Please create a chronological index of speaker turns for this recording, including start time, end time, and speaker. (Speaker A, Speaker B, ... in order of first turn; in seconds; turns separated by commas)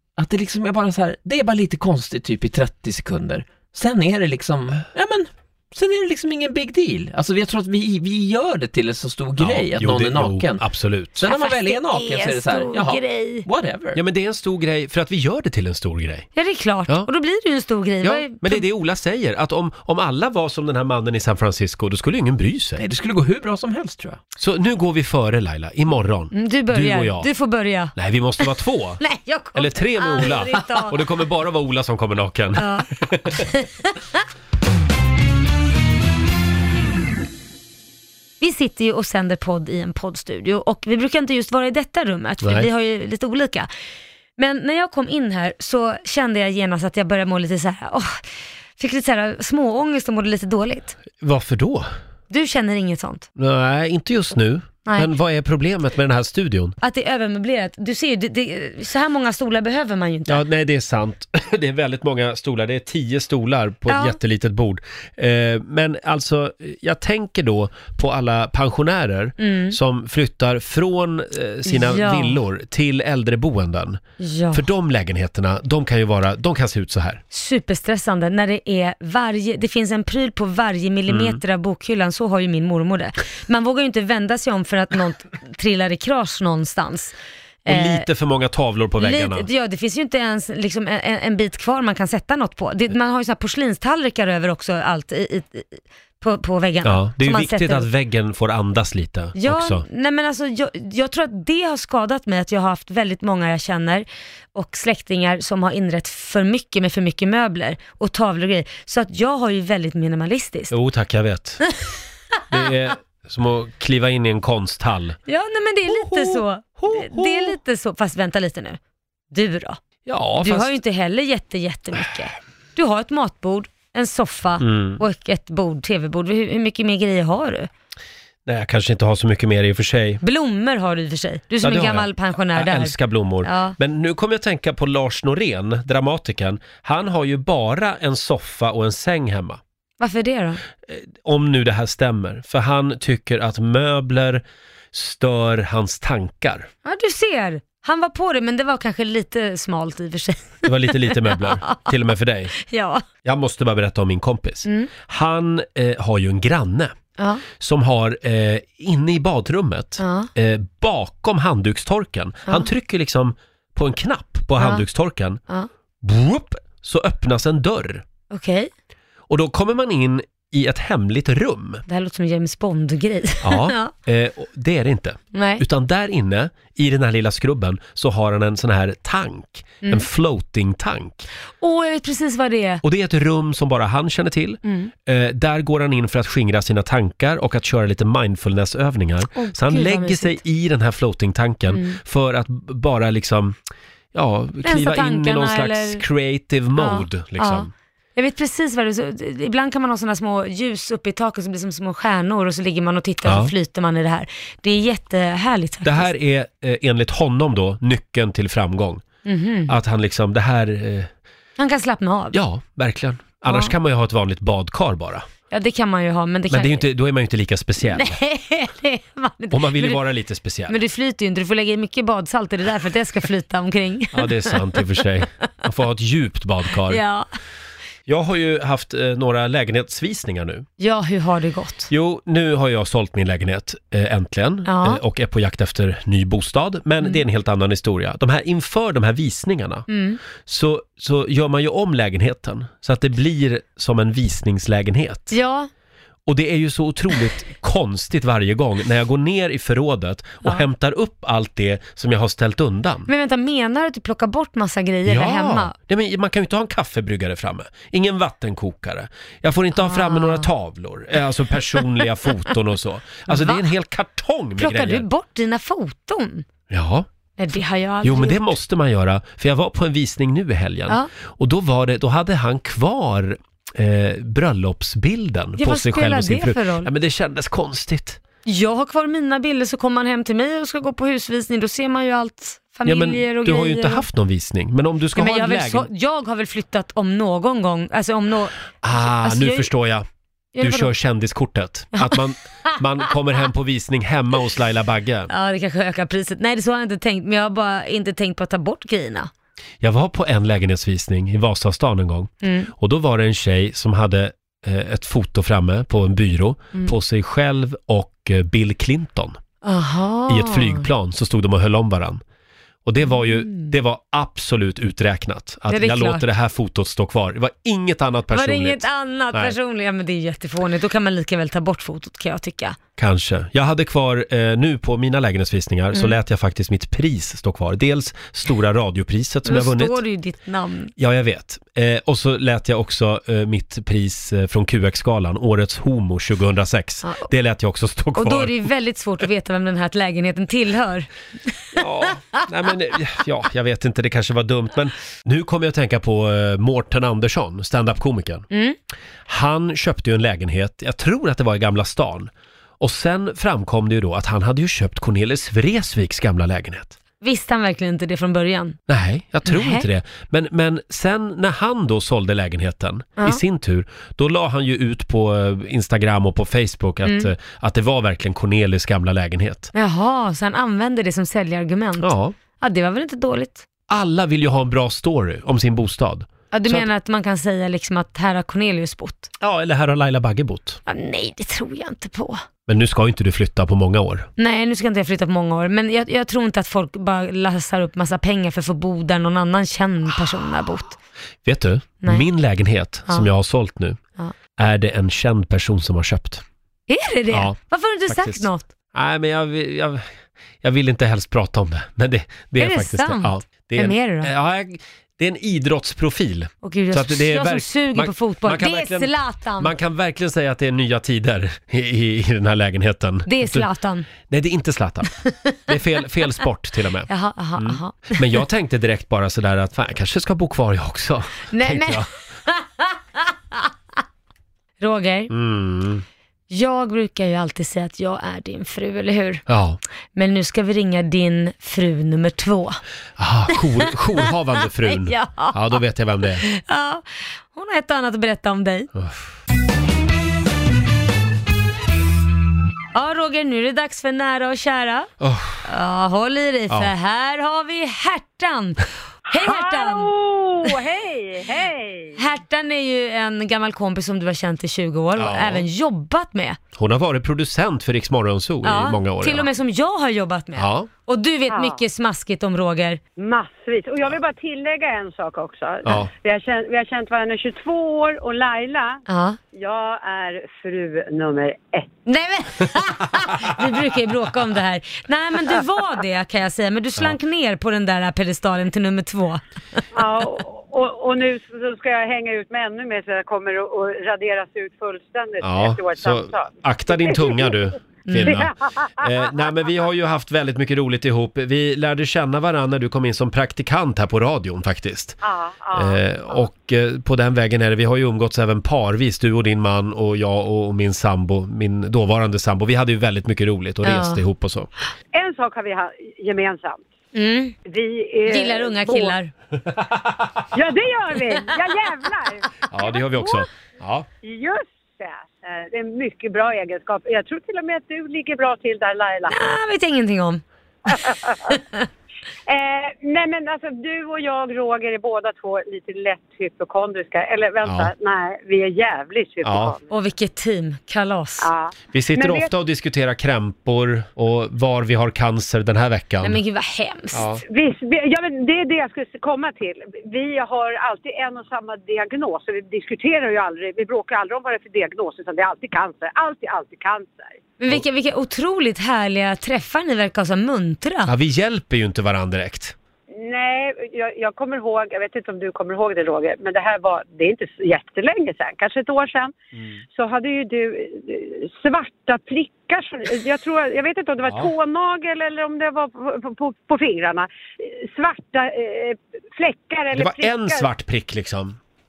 Speaker A: 0.2-10.7, Speaker B: 9.4-11.2, Speaker A: 11.2-14.0, Speaker C: 11.2-13.4, Speaker B: 13.9-16.3, Speaker C: 16.3-18.6, Speaker B: 18.0-22.8, Speaker A: 22.8-24.2, Speaker B: 24.4-27.3, Speaker C: 26.3-31.0, Speaker B: 27.9-29.0, Speaker B: 29.5-33.5, Speaker C: 32.6-34.2, Speaker C: 38.4-43.7, Speaker B: 42.4-42.7, Speaker C: 44.4-48.2, Speaker C: 48.8-51.0, Speaker B: 51.2-51.9, Speaker C: 52.3-53.3, Speaker B: 53.4-56.8, Speaker C: 56.8-60.4, Speaker B: 60.3-74.0, Speaker C: 63.9-64.2, Speaker C: 69.4-69.8, Speaker C: 71.6-72.4, Speaker C: 74.2-74.6, Speaker B: 74.5-77.2, Speaker C: 77.3-87.1, Speaker B: 81.1-81.4, Speaker C: 87.6-88.0, Speaker B: 87.7-89.5, Speaker C: 89.0-97.9, Speaker B: 96.8-99.8, Speaker C: 99.3-110.7, Speaker B: 110.7-111.6, Speaker C: 111.7-111.9, Speaker B: 112.5-115.2, Speaker C: 115.3-118.8, Speaker B: 115.9-117.6, Speaker C: 119.3-119.8, Speaker B: 120.0-120.7, Speaker C: 120.4-127.7, Speaker B: 124.6-125.0, Speaker B: 128.4-130.2, Speaker C: 130.2-133.8, Speaker B: 131.6-139.6, Speaker C: 140.0-140.6, Speaker B: 140.9-146.7, Speaker C: 146.8-151.8, Speaker B: 150.6-152.5, Speaker C: 152.6-153.0, Speaker B: 153.2-156.9, Speaker C: 154.7-154.9, Speaker C: 157.2-157.4, Speaker B: 157.6-165.4, Speaker C: 160.0-160.3, Speaker C: 164.6-164.8, Speaker B: 166.0-168.0, Speaker C: 168.3-168.7, Speaker B: 169.3-171.8, Speaker C: 171.9-173.9, Speaker B: 173.4-181.3, Speaker C: 175.3-175.6, Speaker C: 181.6-182.8, Speaker B: 182.8-193.6, Speaker C: 184.6-184.9, Speaker C: 189.3-190.4, Speaker C: 191.7-192.0, Speaker B: 194.1-197.7, Speaker C: 194.6-196.0, Speaker C: 196.8-206.1, Speaker B: 203.2-203.5, Speaker B: 205.8-209.0, Speaker C: 209.2-209.7, Speaker B: 209.7-211.1, Speaker C: 211.6-212.4, Speaker B: 212.3-215.3, Speaker C: 213.4-213.7, Speaker C: 215.5-216.8, Speaker B: 216.5-218.2, Speaker C: 217.8-220.0, Speaker B: 219.5-220.8, Speaker C: 220.7-224.8, Speaker B: 224.1-227.0, Speaker C: 226.9-227.3, Speaker B: 228.1-230.7, Speaker C: 230.8-231.9, Speaker B: 231.9-239.9, Speaker C: 234.7-235.0, Speaker C: 239.9-240.2, Speaker B: 240.4-245.3, Speaker C: 245.3-245.7, Speaker B: 246.3-253.1, Speaker C: 253.1-255.7, Speaker B: 255.1-265.1, Speaker C: 259.8-260.5, Speaker C: 263.3-263.6, Speaker C: 264.6-266.5, Speaker B: 266.7-267.1, Speaker C: 267.4-268.6, Speaker B: 268.0-278.2, Speaker C: 275.6-276.9, Speaker C: 278.4-284.1, Speaker B: 282.9-285.9, Speaker C: 285.1-289.7, Speaker B: 288.8-290.1, Speaker C: 290.6-290.9, Speaker B: 290.6-295.3, Speaker C: 291.9-292.8, Speaker C: 295.3-299.3, Speaker B: 299.8-309.4, Speaker C: 302.4-302.7, Speaker C: 309.6-310.9, Speaker B: 310.3-312.2, Speaker B: 312.9-319.6, Speaker C: 313.0-313.7, Speaker C: 315.7-316.2, Speaker C: 318.3-322.8, Speaker B: 323.0-330.0, Speaker C: 329.4-330.9, Speaker B: 331.0-338.7, Speaker C: 338.1-342.4, Speaker B: 341.7-348.5, Speaker C: 348.5-348.8, Speaker B: 349.3-356.9, Speaker C: 357.2-358.8, Speaker B: 358.9-369.7, Speaker C: 359.4-359.9, Speaker C: 367.0-367.3, Speaker C: 369.7-373.6, Speaker B: 372.0-372.4, Speaker B: 373.9-376.9, Speaker C: 376.5-379.3, Speaker B: 379.4-380.8, Speaker C: 380.9-382.4, Speaker B: 382.7-384.3, Speaker C: 384.4-391.0, Speaker B: 391.4-394.0, Speaker B: 394.6-396.4, Speaker C: 396.9-398.7, Speaker B: 397.3-397.6, Speaker B: 398.1-400.1, Speaker B: 400.6-413.7, Speaker C: 402.6-404.3, Speaker C: 406.6-409.7, Speaker C: 413.2-414.1, Speaker B: 414.2-415.1, Speaker C: 415.2-415.6, Speaker B: 415.7-422.1, Speaker C: 417.1-418.4, Speaker C: 421.5-423.6, Speaker C: 424.8-425.3, Speaker B: 425.3-426.1, Speaker C: 426.5-429.4, Speaker B: 429.5-429.8, Speaker C: 430.1-432.8, Speaker B: 433.2-436.4, Speaker C: 433.5-434.2, Speaker C: 434.8-435.6, Speaker C: 436.4-438.9, Speaker C: 442.9-445.1, Speaker B: 445.2-445.6, Speaker C: 445.6-450.1, Speaker D: 449.3-452.2, Speaker C: 452.2-456.6, Speaker B: 455.1-455.6, Speaker B: 456.7-459.5, Speaker C: 458.6-463.0, Speaker B: 460.6-460.9, Speaker D: 461.5-461.8, Speaker D: 463.2-471.9, Speaker C: 469.1-469.4, Speaker C: 472.1-479.8, Speaker D: 479.9-487.6, Speaker B: 485.4-495.2, Speaker C: 488.1-488.4, Speaker D: 488.2-489.1, Speaker D: 495.2-496.4, Speaker B: 495.7-504.7, Speaker C: 503.8-504.2, Speaker D: 505.1-506.8, Speaker C: 507.1-507.6, Speaker D: 507.6-509.1, Speaker C: 508.3-509.3, Speaker B: 509.9-510.2, Speaker D: 510.5-513.5, Speaker B: 512.7-514.1, Speaker D: 514.2-519.5, Speaker C: 519.3-521.8, Speaker D: 520.9-521.6, Speaker D: 522.5-529.8, Speaker B: 527.6-527.9, Speaker B: 529.4-529.8, Speaker C: 529.9-531.5, Speaker D: 531.4-532.5, Speaker B: 531.9-536.4, Speaker C: 536.2-537.3, Speaker B: 537.1-537.4, Speaker D: 537.4-547.2, Speaker C: 547.6-551.1, Speaker B: 551.1-552.8, Speaker D: 553.2-559.4, Speaker D: 559.9-570.7, Speaker B: 569.9-571.6